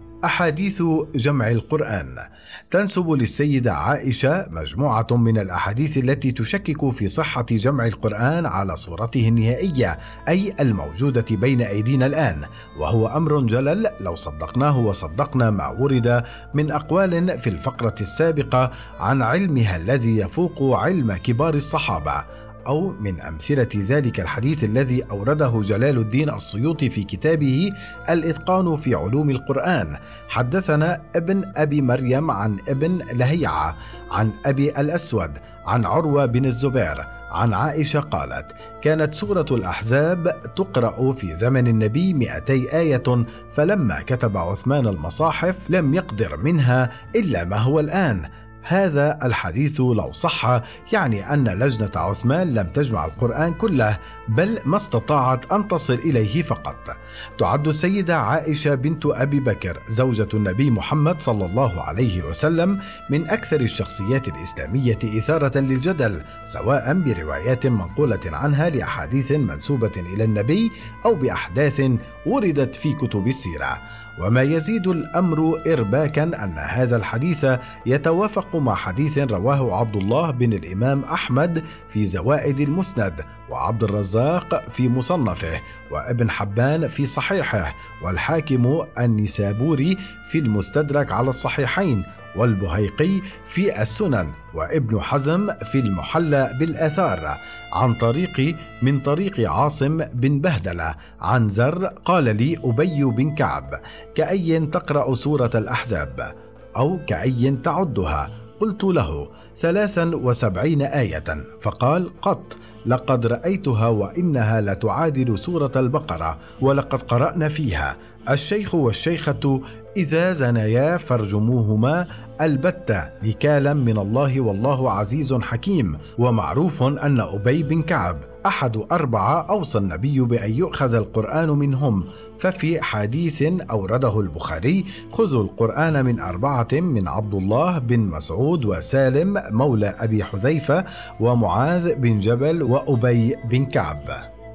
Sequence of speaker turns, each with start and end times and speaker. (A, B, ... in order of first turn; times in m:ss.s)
0:00.3-2:24.2 A